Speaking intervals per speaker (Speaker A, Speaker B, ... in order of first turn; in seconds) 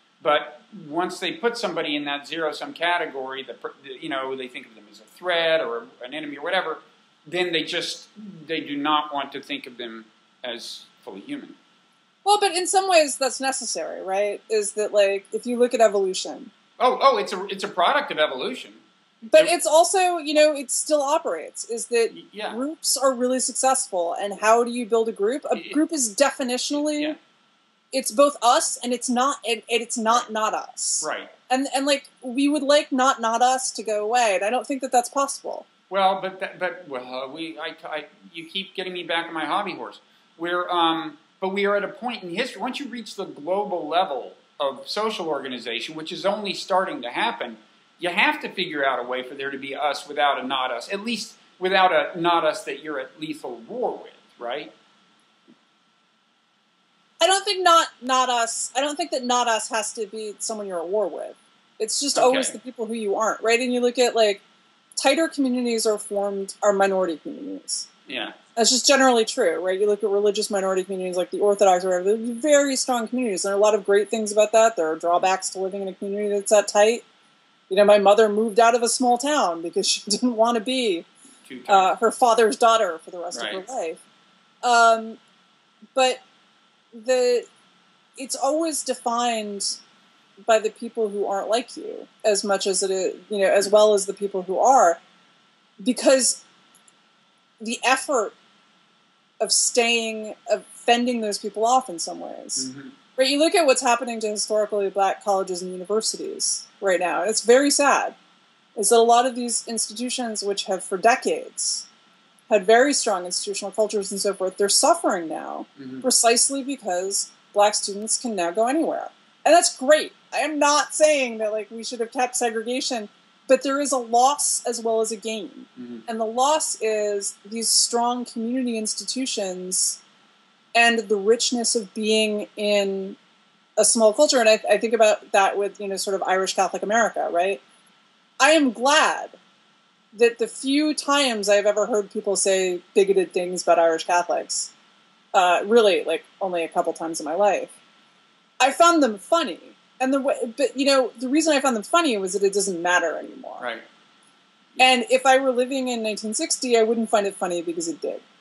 Speaker A: 0.2-11.6, 16.8-18.8, 22.1-22.6, 25.5-25.8, 26.8-27.2, 31.0-31.3, 35.9-54.7, 62.1-62.6, 68.1-68.4, 81.5-81.9, 83.3-83.6, 102.6-103.0, 115.8-116.1, 125.8-126.1, 153.6-153.8
Speaker B: 12.2-16.5, 19.3-27.2, 27.9-35.7, 57.2-64.4, 65.0-67.9, 68.6-77.0, 77.7-81.1, 81.7-84.0, 84.6-85.2, 86.0-86.2, 86.9-87.5, 88.2-89.8, 90.5-95.0, 95.8-96.4, 97.6-98.3, 99.4-108.2, 108.8-111.9, 112.5-130.0, 130.8-133.2, 133.8-137.6, 138.4-139.4, 140.1-144.7, 145.3-147.7, 148.6-153.6, 154.8-158.2